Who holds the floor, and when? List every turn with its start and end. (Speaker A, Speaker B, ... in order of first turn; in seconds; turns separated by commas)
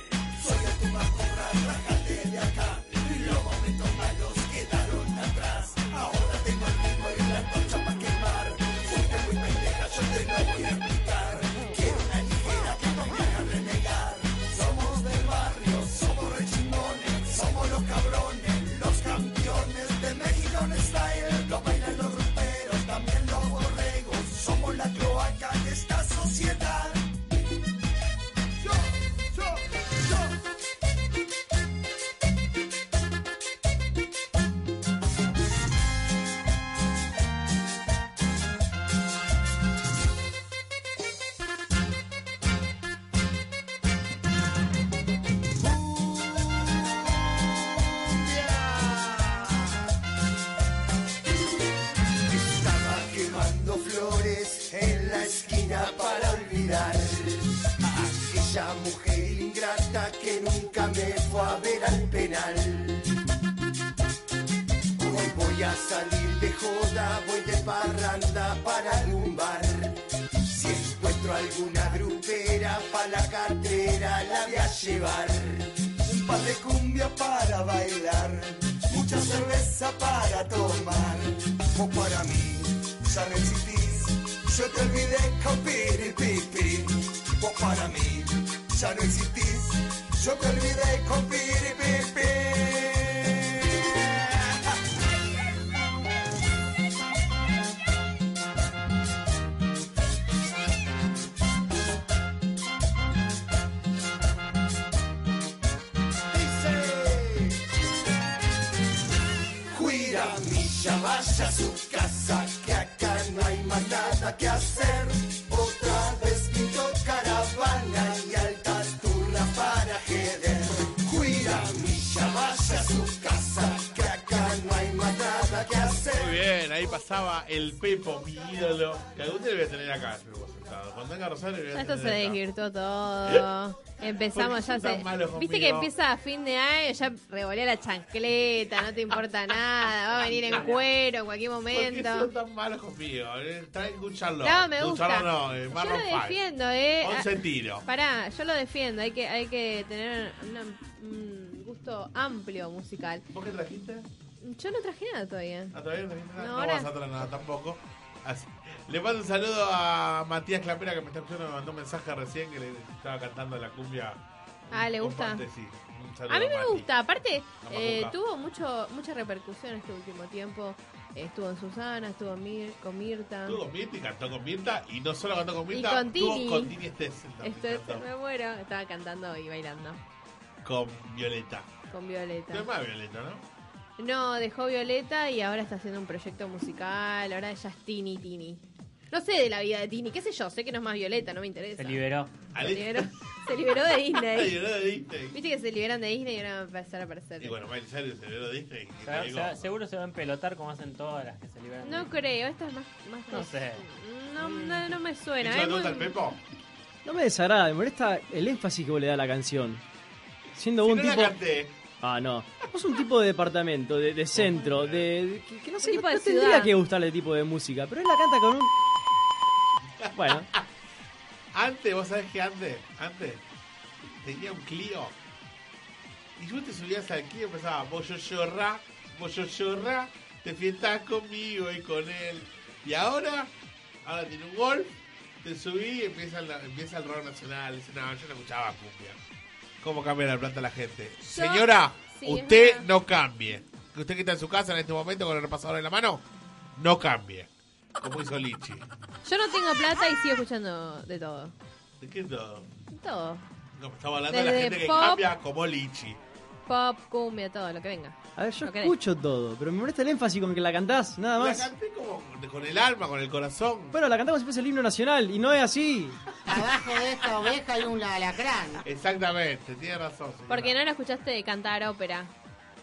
Speaker A: 0.3-27.1, Speaker A: 28.6-30.2, Speaker A: 45.9-46.7, Speaker A: 48.0-49.7, Speaker A: 52.3-63.2, Speaker A: 65.0-94.8, Speaker A: 106.3-107.6, Speaker A: 109.7-126.4, Speaker B: 126.1-132.4, Speaker C: 131.7-142.3, Speaker B: 134.0-135.9, Speaker B: 140.3-140.8, Speaker D: 140.5-140.8, Speaker B: 141.7-146.4, Speaker C: 144.4-153.2, Speaker B: 147.0-147.8, Speaker B: 153.3-154.1, Speaker C: 154.4-155.7, Speaker B: 155.7-166.9, Speaker C: 156.3-156.9, Speaker C: 164.7-165.4, Speaker C: 166.3-173.6, Speaker B: 167.6-168.1, Speaker B: 173.4-178.0, Speaker C: 175.7-176.8, Speaker C: 177.4-180.0, Speaker B: 180.6-181.7, Speaker C: 181.9-182.7, Speaker B: 182.5-183.4, Speaker C: 184.0-192.0, Speaker D: 191.8-192.3, Speaker B: 192.5-193.1, Speaker C: 192.6-194.6, Speaker B: 193.7-195.3, Speaker C: 195.3-197.6, Speaker B: 197.4-199.7, Speaker D: 199.0-202.1, Speaker C: 201.8-206.1, Speaker D: 203.3-203.9, Speaker D: 204.4-204.9, Speaker B: 205.4-206.4, Speaker E: 207.0-209.8, Speaker E: 210.6-211.3, Speaker B: 210.8-211.8, Speaker E: 212.0-218.7, Speaker B: 214.3-215.1, Speaker C: 215.8-216.7, Speaker B: 220.0-220.6, Speaker E: 220.1-220.5, Speaker B: 221.5-223.4, Speaker B: 224.2-225.2, Speaker B: 226.4-233.5, Speaker B: 234.0-239.2, Speaker B: 239.8-246.2, Speaker C: 241.3-242.9, Speaker B: 246.8-248.9, Speaker C: 249.2-251.5, Speaker B: 252.0-252.7, Speaker C: 252.9-253.4, Speaker B: 253.8-256.2, Speaker C: 254.3-255.2, Speaker C: 256.7-258.9, Speaker E: 258.4-261.7, Speaker B: 261.4-263.9, Speaker E: 263.9-266.2, Speaker F: 266.5-268.8, Speaker B: 268.8-270.8, Speaker C: 270.5-272.3